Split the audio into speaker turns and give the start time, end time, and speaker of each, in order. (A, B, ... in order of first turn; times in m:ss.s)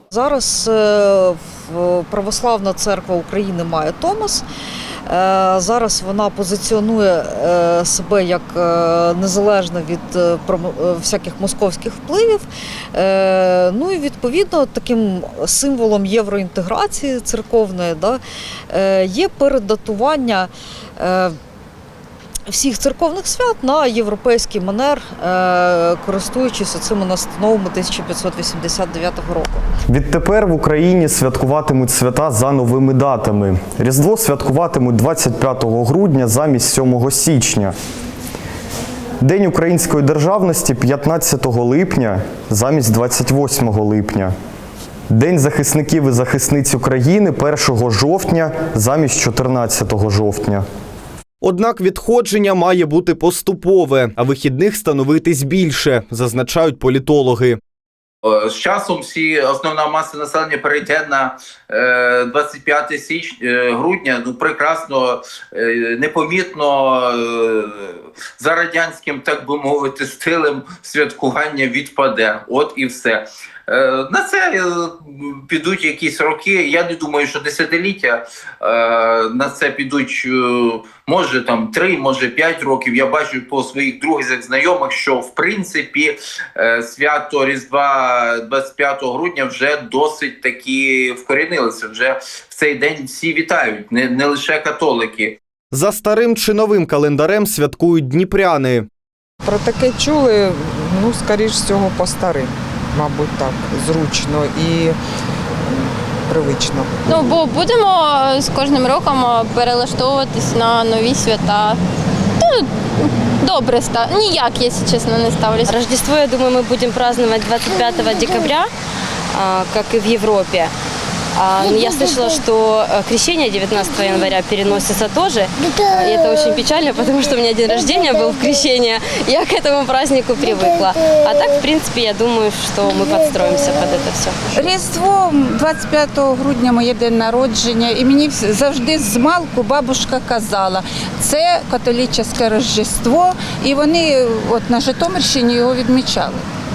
0:00.1-0:04.4 A
0:05.1-0:21.3 A
0:22.5-0:29.6 A
0:29.9-0:37.7 B
0:39.2-0:44.3 B
0:45.1-0:50.6 B
0:51.4-0:57.6 B
0:58.3-1:35.4 C
1:35.7-1:38.9 B
1:39.4-1:45.0 D
1:45.7-1:47.2 D
1:47.1-1:51.8 E
1:52.4-1:55.7 E
1:55.7-1:58.7 F
1:59.3-2:00.7 F
2:01.4-2:14.4 F
2:14.5-2:26.5 G